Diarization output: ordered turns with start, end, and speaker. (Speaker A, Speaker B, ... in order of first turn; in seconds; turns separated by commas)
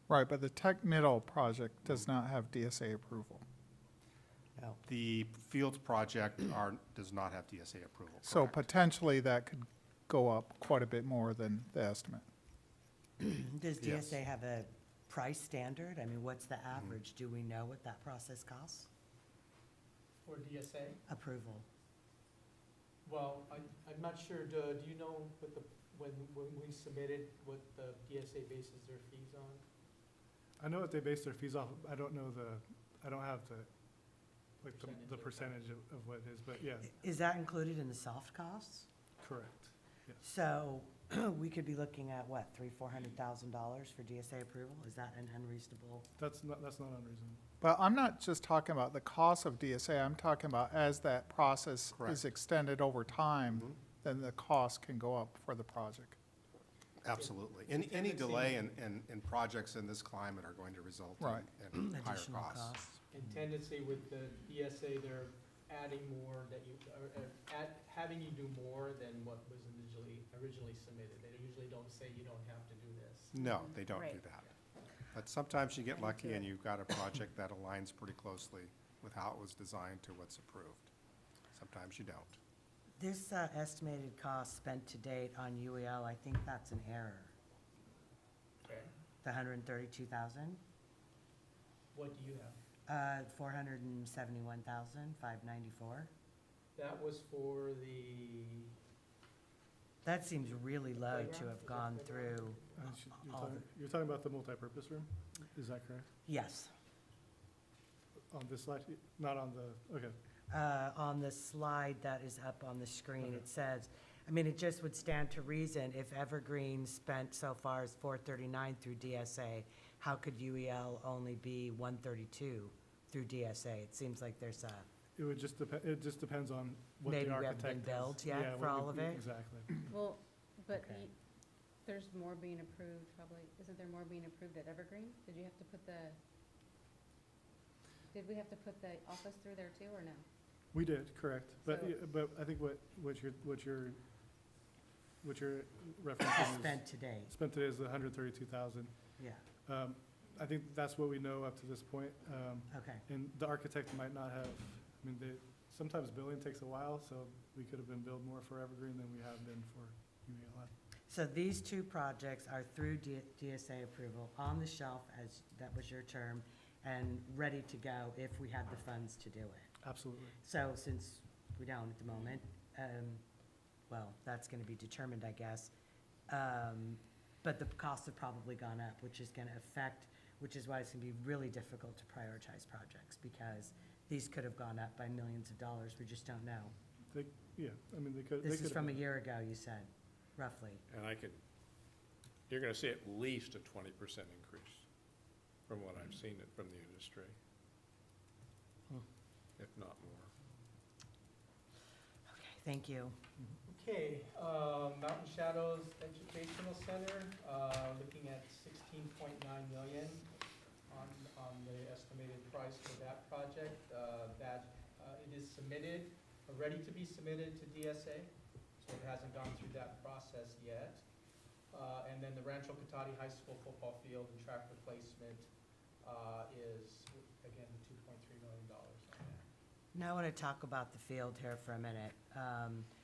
Speaker A: 0.1-3.4, Speaker B: 4.8-8.7, Speaker A: 8.2-12.3, Speaker C: 13.2-18.9, Speaker B: 13.8-14.2, Speaker D: 20.2-21.0, Speaker C: 21.1-21.7, Speaker D: 23.1-29.6, Speaker E: 30.6-33.7, Speaker E: 34.6-36.9, Speaker D: 34.6-35.5, Speaker C: 36.9-38.9, Speaker E: 39.2-40.2, Speaker C: 40.2-46.1, Speaker E: 46.2-47.4, Speaker A: 47.6-56.2, Speaker B: 51.9-52.2, Speaker B: 57.0-62.9, Speaker D: 57.2-58.6, Speaker C: 61.9-62.9, Speaker D: 63.1-73.3, Speaker B: 73.3-74.5, Speaker F: 73.4-74.2, Speaker B: 75.1-80.9, Speaker B: 81.5-82.4, Speaker C: 83.0-87.3, Speaker D: 88.6-88.9, Speaker C: 89.2-90.6, Speaker D: 91.9-92.6, Speaker C: 92.9-96.1, Speaker D: 96.8-98.7, Speaker C: 100.0-102.6, Speaker D: 101.0-102.6, Speaker E: 102.7-106.1, Speaker C: 106.3-106.7, Speaker E: 108.3-110.2, Speaker C: 110.5-124.9, Speaker E: 125.2-129.9, Speaker C: 127.1-129.2, Speaker F: 129.9-131.1, Speaker C: 130.8-131.1, Speaker F: 131.9-136.2, Speaker F: 138.1-140.2, Speaker E: 140.7-144.0, Speaker F: 141.7-141.9, Speaker E: 145.2-160.7, Speaker C: 146.4-147.3, Speaker C: 149.2-149.4, Speaker C: 152.7-153.1, Speaker C: 161.1-169.7, Speaker E: 169.8-170.4, Speaker C: 170.4-173.2, Speaker C: 173.9-175.7, Speaker C: 176.3-186.8, Speaker E: 187.1-189.0, Speaker C: 188.4-190.8, Speaker G: 190.9-191.3, Speaker G: 192.5-194.7, Speaker G: 195.7-197.3, Speaker G: 199.6-200.3, Speaker C: 202.3-203.2, Speaker D: 203.7-210.3, Speaker D: 210.9-221.0, Speaker D: 221.7-225.5, Speaker D: 226.0-229.4, Speaker C: 229.9-232.9